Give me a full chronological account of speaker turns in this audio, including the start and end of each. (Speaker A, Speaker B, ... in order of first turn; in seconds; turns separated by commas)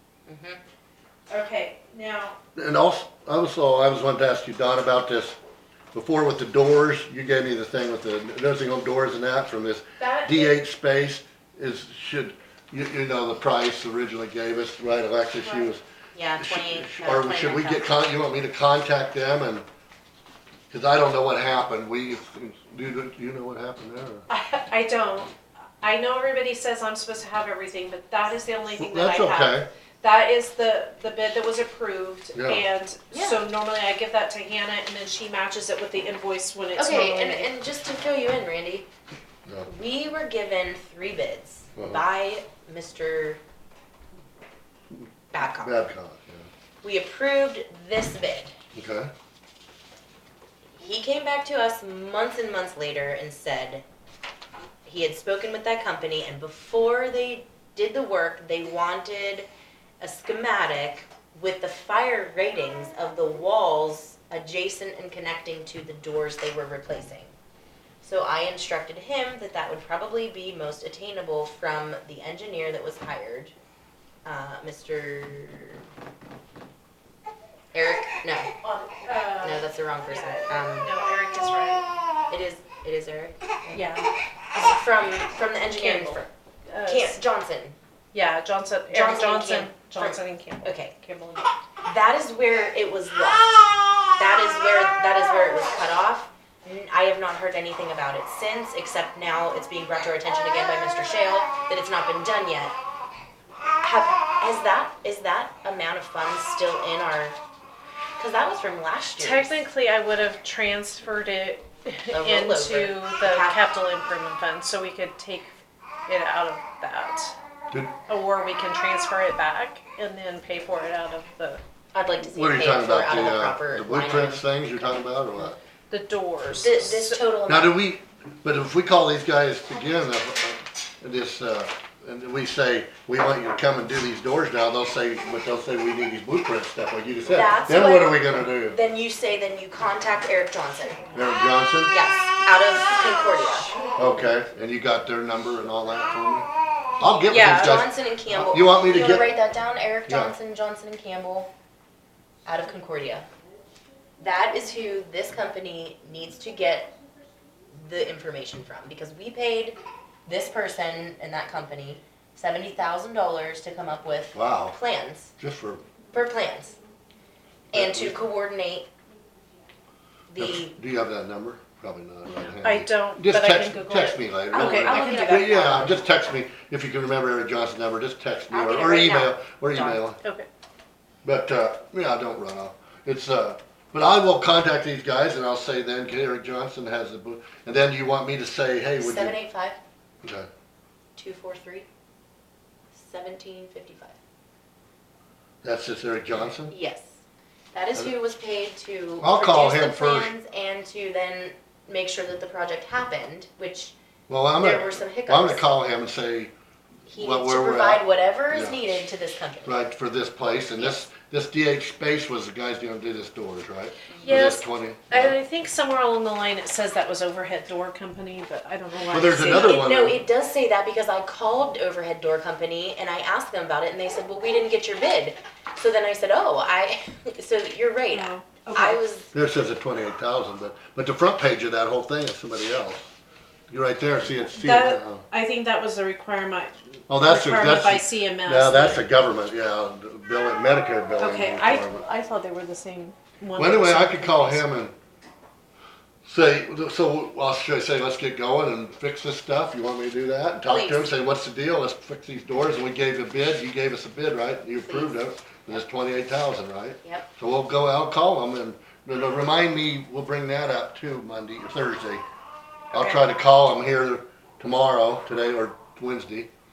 Speaker A: 0.3-0.6, Speaker B: 1.3-2.4, Speaker C: 2.6-5.4, Speaker C: 5.9-15.8, Speaker B: 10.0-10.5, Speaker A: 16.1-17.9, Speaker C: 16.4-19.6, Speaker C: 20.7-24.2, Speaker B: 24.3-37.5, Speaker C: 28.7-29.7, Speaker C: 32.3-32.6, Speaker A: 33.1-33.4, Speaker A: 36.8-38.9, Speaker A: 39.7-43.4, Speaker C: 41.8-42.0, Speaker A: 45.3-45.7, Speaker C: 45.6-46.5, Speaker A: 46.8-48.5, Speaker C: 48.7-49.1, Speaker A: 50.8-53.8, Speaker A: 54.8-59.5, Speaker A: 60.0-67.3, Speaker A: 68.0-73.5, Speaker A: 74.2-75.8, Speaker A: 77.7-78.5, Speaker B: 78.6-81.9, Speaker A: 79.4-80.9, Speaker A: 82.3-83.9, Speaker B: 83.7-84.1, Speaker A: 84.5-86.3, Speaker B: 85.8-87.2, Speaker A: 86.9-87.8, Speaker B: 88.1-91.5, Speaker A: 88.9-90.9, Speaker A: 91.8-102.8, Speaker A: 103.8-107.4, Speaker A: 108.2-109.6, Speaker B: 109.2-117.3, Speaker A: 112.1-113.6, Speaker B: 118.1-121.6, Speaker A: 121.9-125.5, Speaker C: 122.2-125.5, Speaker B: 125.9-127.2, Speaker A: 126.5-127.8, Speaker C: 127.5-138.8, Speaker A: 137.3-141.1, Speaker C: 141.1-141.9, Speaker A: 141.9-143.8, Speaker C: 144.0-146.5, Speaker C: 147.0-149.3, Speaker A: 147.0-151.5, Speaker B: 147.3-147.8, Speaker C: 150.1-150.3, Speaker A: 152.4-153.3, Speaker A: 154.2-156.9, Speaker A: 157.7-165.3, Speaker C: 164.3-164.8, Speaker C: 165.4-165.9, Speaker A: 166.1-166.8, Speaker A: 167.7-168.9, Speaker C: 167.7-168.2, Speaker A: 170.3-170.7, Speaker C: 170.4-180.2, Speaker B: 172.6-175.9, Speaker A: 174.5-176.0, Speaker A: 178.5-179.3, Speaker B: 179.7-180.5, Speaker C: 181.2-189.3, Speaker A: 189.0-189.8, Speaker C: 190.2-190.5, Speaker A: 191.2-191.8, Speaker A: 192.9-194.2, Speaker C: 195.6-196.8, Speaker A: 196.7-197.1, Speaker A: 197.7-203.9, Speaker C: 199.2-200.3, Speaker C: 204.3-206.5, Speaker A: 204.6-205.6, Speaker A: 207.1-209.8, Speaker C: 207.2-208.8, Speaker C: 209.7-215.3, Speaker A: 210.8-211.1, Speaker B: 214.2-219.8, Speaker C: 219.1-220.2, Speaker A: 219.2-229.3, Speaker B: 228.1-229.0, Speaker C: 229.3-233.1, Speaker C: 233.7-235.2, Speaker B: 234.5-239.0, Speaker C: 237.1-242.0, Speaker B: 241.2-244.6, Speaker C: 243.6-244.9, Speaker C: 246.2-262.2, Speaker A: 250.7-251.1, Speaker A: 254.8-255.8, Speaker B: 262.9-263.2, Speaker C: 262.9-266.5